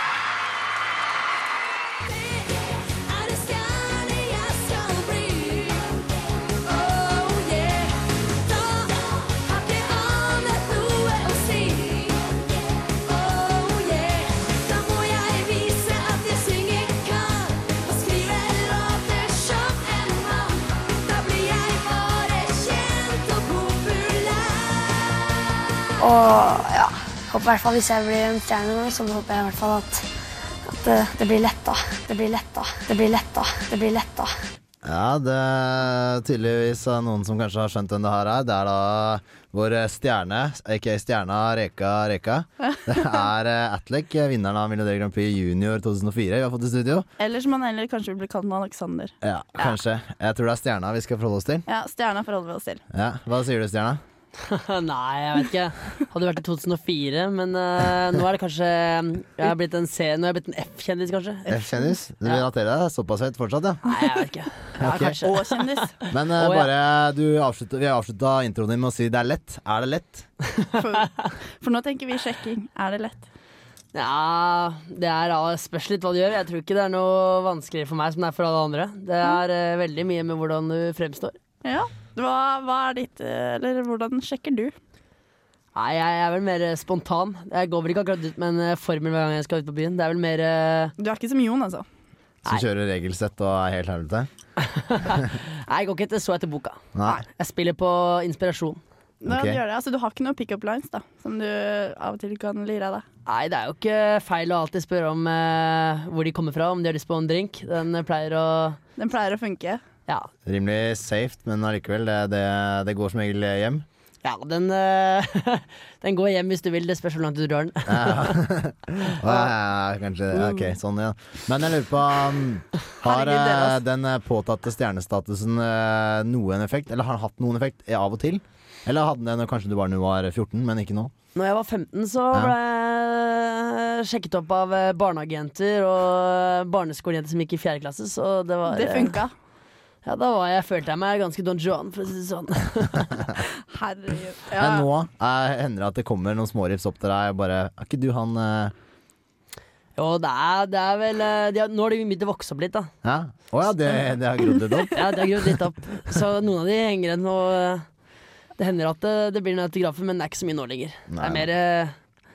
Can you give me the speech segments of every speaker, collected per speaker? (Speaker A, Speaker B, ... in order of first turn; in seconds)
Speaker A: 2.0-6.0, 6.6-25.5
Speaker B: 26.0-30.0, 30.6-34.3
Speaker C: 34.8-47.1, 49.2-51.6, 52.9-54.0, 61.5-63.8, 64.8-65.1, 66.1-70.3, 92.4-94.3, 96.9-97.2, 99.2-99.6, 110.5-113.8, 117.9-131.1, 144.6-148.7, 153.0-155.0, 161.1-161.5
Speaker D: 47.2-49.7, 51.7-52.8, 61.4-61.9, 64.8-65.9, 70.8-73.2, 81.6-84.7, 91.0-91.8, 99.2-103.0, 109.0-109.8, 123.0-123.8, 138.7-139.3, 143.7-144.9
Speaker E: 54.4-61.5, 63.9-66.7, 73.9-81.3, 85.7-90.9, 94.9-98.8, 103.2-108.8, 114.2-118.4, 120.3-120.7, 131.3-139.2, 140.0-143.1, 149.9-152.9, 154.9-157.8, 158.6-161.9